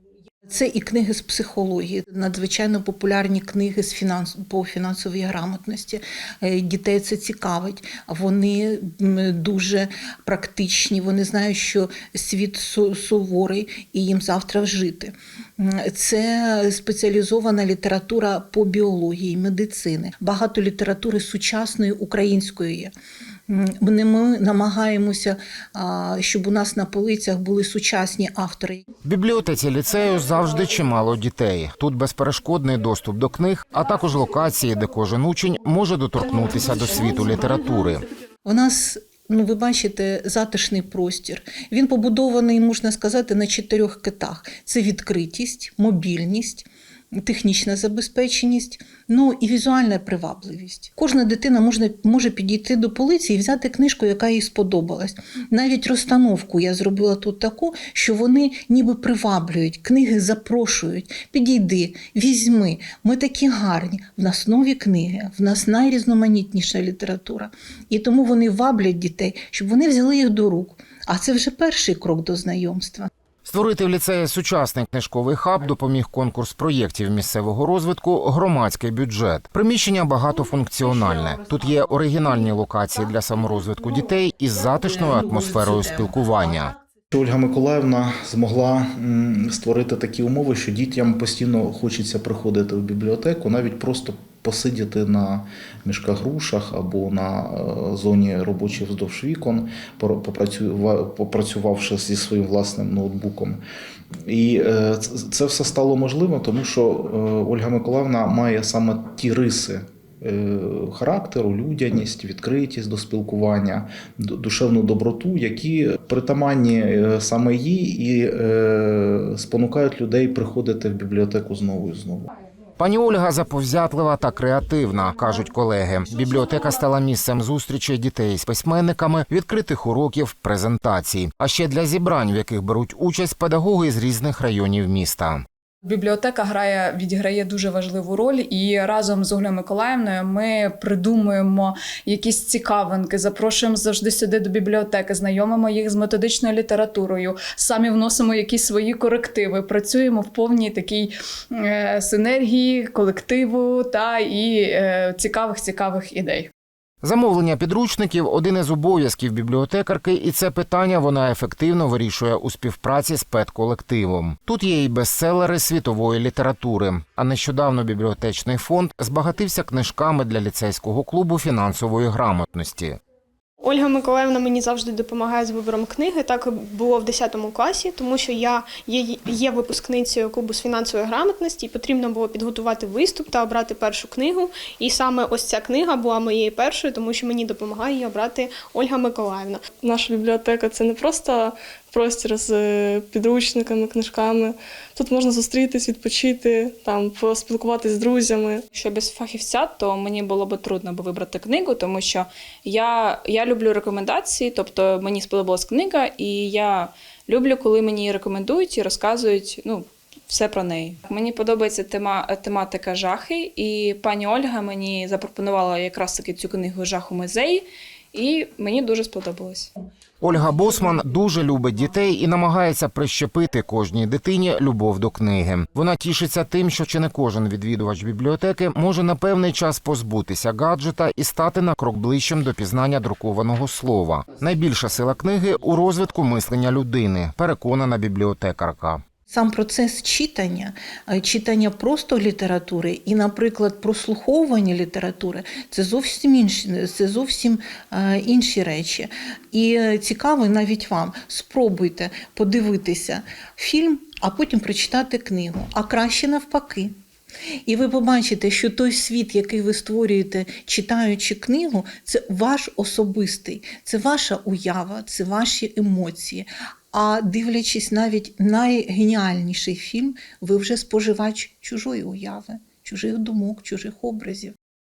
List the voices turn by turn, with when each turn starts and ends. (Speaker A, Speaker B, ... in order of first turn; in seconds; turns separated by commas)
Speaker A: 0.5-22.9, Speaker A: 23.5-28.8, Speaker B: 29.1-38.0, Speaker A: 38.5-73.1, Speaker B: 73.5-86.7, Speaker C: 87.1-103.6, Speaker C: 104.3-122.3, Speaker B: 122.8-135.4, Speaker D: 135.9-156.5, Speaker B: 157.0-173.0, Speaker E: 173.6-189.6, Speaker F: 189.7-198.6, Speaker G: 198.7-219.7, Speaker B: 220.2-239.0, Speaker A: 239.3-256.9, Speaker A: 257.7-274.6